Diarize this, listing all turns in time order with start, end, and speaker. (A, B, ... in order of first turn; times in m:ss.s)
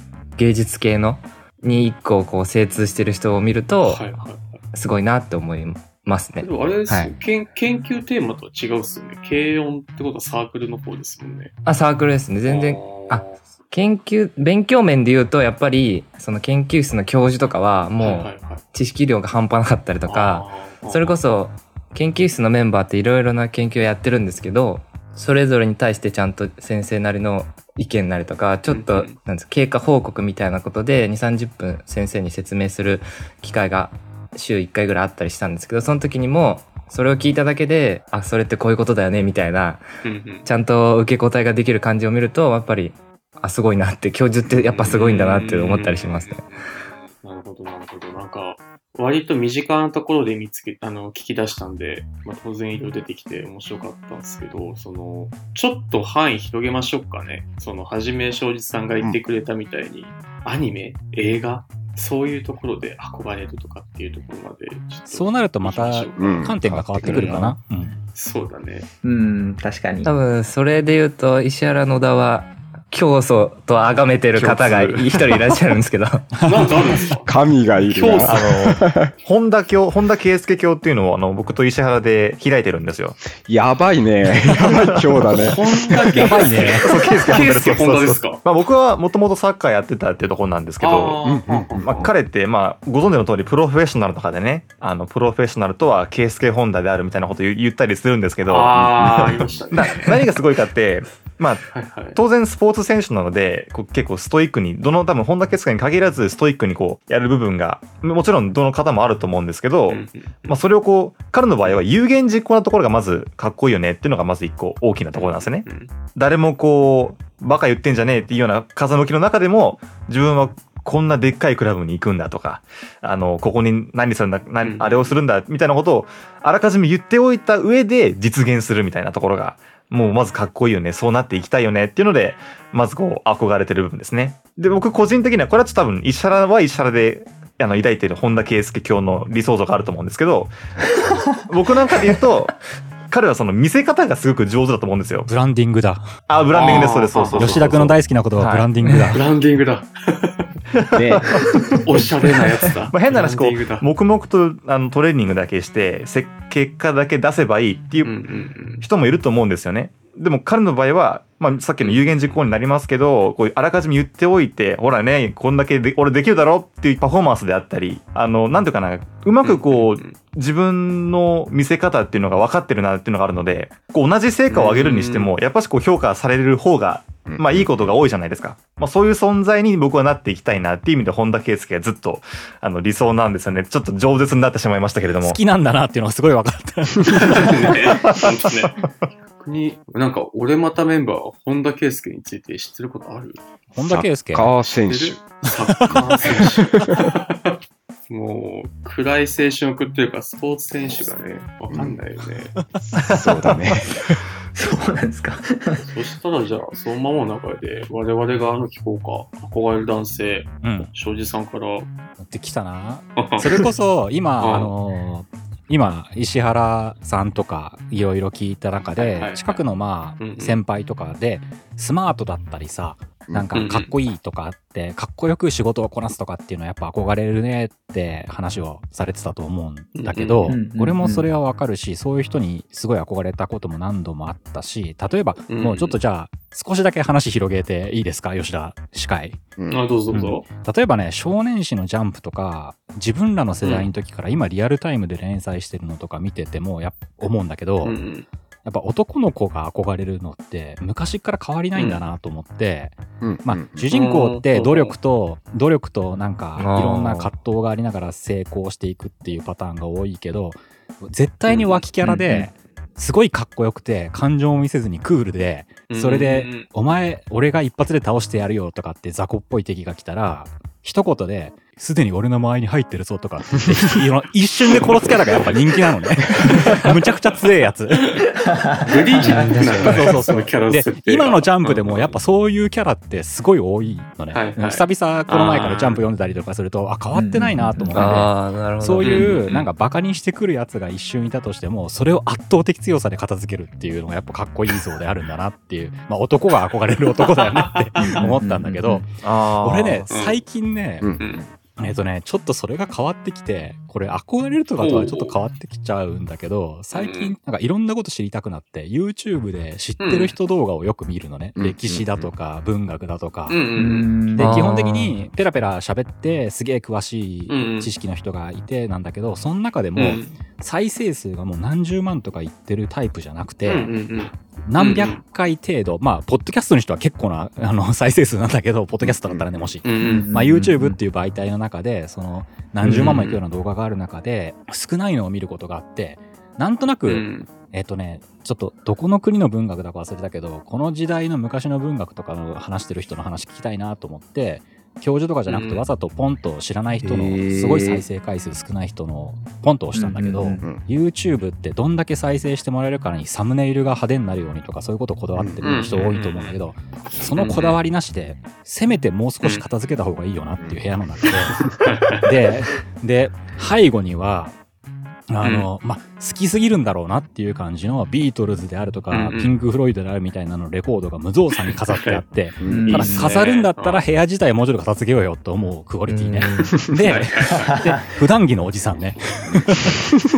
0:00.4-0:04.1 A
0:03.8-0:04.6 B
0:04.7-0:07.1 A
0:06.4-0:11.5 B
0:11.6-0:39.8 A
0:12.4-0:13.4 B
0:18.0-0:18.6 B
0:20.1-0:21.2 B
0:28.7-0:29.2 B
0:40.0-0:40.5 B
0:40.4-0:46.4 A
0:44.8-1:07.5 B
1:05.1-1:08.0 C
1:06.2-1:07.6 D
1:08.1-1:08.9 B
1:09.0-1:10.1 E
1:10.0-1:16.3 A
1:14.4-1:15.5 F
1:16.4-1:17.3 B
1:17.2-1:19.1 D
1:17.9-1:18.4 B
1:18.2-1:23.2 F
1:23.4-1:26.4 D
1:24.4-1:25.5 F
1:25.3-1:28.4 B
1:26.2-1:26.8 C
1:26.6-1:31.2 F
1:30.8-1:32.1 B
1:31.2-1:32.1 D
1:31.7-2:20.5 F
1:38.5-1:40.2 B
1:38.8-1:39.5 D
1:41.7-1:42.2 B
1:49.9-1:50.6 B
1:55.1-1:55.9 B
2:04.6-2:05.2 B
2:21.5-2:22.6 F
2:23.1-2:25.3 F
2:25.3-2:26.1 C
2:26.3-2:28.7 F
2:26.5-2:27.8 B
2:27.3-2:29.2 C
2:29.1-2:30.5 B
2:30.7-2:31.1 F
2:30.9-2:31.3 D
2:31.8-2:33.9 B
2:32.9-2:38.2 F
2:38.0-2:38.8 B
2:38.8-3:05.4 F
2:41.8-2:42.4 B
2:49.4-2:50.2 B
2:54.5-2:55.3 B
2:57.2-2:58.0 D
3:05.2-3:07.6 C
3:07.2-3:08.8 B
3:09.4-3:13.4 B
3:13.7-3:14.6 C
3:13.8-3:15.2 D
3:14.8-3:17.5 B
3:15.7-3:16.0 C
3:15.9-3:16.4 D
3:18.1-3:22.5 B
3:21.7-3:22.0 D
3:22.8-3:24.1 D
3:23.0-3:23.8 F
3:24.5-3:25.9 E
3:25.8-3:31.9 B
3:30.6-3:30.9 C
3:32.2-3:59.4 C
3:33.2-3:33.7 B
3:34.4-3:34.7 B
3:39.0-3:39.6 B
3:40.2-3:40.6 B
3:43.3-3:43.6 D
3:43.5-3:43.9 B
3:49.9-3:50.6 B
3:50.4-3:51.3 E
3:55.5-3:56.0 B
3:59.6-3:59.8 D
3:59.7-4:00.5 B
4:00.1-4:08.0 C
4:03.6-4:03.9 B
4:07.8-4:08.3 B
4:08.6-4:38.2 C
4:11.7-4:12.0 B
4:13.2-4:13.9 D
4:13.9-4:15.0 B
4:16.6-4:17.3 A
4:21.5-4:21.8 B
4:22.0-4:22.5 A
4:25.9-4:26.7 B
4:38.0-4:38.2 B
4:38.6-4:39.4 E
4:38.8-4:42.2 B
4:39.2-4:40.2 A
4:39.2-4:59.1 C
4:44.3-4:46.0 B
4:47.2-4:48.2 E
4:47.3-4:49.5 A
4:49.0-4:49.7 B
4:57.0-4:58.3 B
4:58.1-4:59.1 E
4:59.2-5:00.1 F
4:59.6-5:01.1 C
5:00.1-5:00.4 B
5:01.0-5:01.5 D
5:01.2-5:01.4 B
5:01.8-5:13.6 C
5:04.8-5:05.3 B
5:06.9-5:07.3 B
5:10.0-5:10.3 B
5:11.6-5:12.3 D
5:13.5-5:14.2 B
5:13.8-5:14.7 E
5:14.3-5:23.9 C
5:14.4-5:15.1 A
5:17.5-5:17.9 B
5:20.0-5:20.3 B
5:23.6-5:25.2 B
5:24.6-6:01.6 C
5:29.0-5:29.7 D
5:29.8-5:30.3 B
5:30.0-5:31.0 E
5:32.8-5:33.4 B
5:37.0-5:37.5 B
5:45.5-5:45.9 B
5:47.0-5:48.0 E
5:49.9-5:50.6 E
5:55.4-5:55.6 D
5:55.6-5:56.6 B
5:57.4-5:57.8 B
6:00.6-6:00.8 D
6:01.8-6:02.2 B
6:02.2-6:04.6 C
6:05.3-6:20.0 C
6:05.4-6:05.7 B
6:09.1-6:09.5 B
6:11.7-6:12.2 B
6:12.6-6:13.1 D
6:12.7-6:13.3 E
6:12.8-6:14.0 B
6:16.1-6:16.8 A
6:17.1-6:17.9 B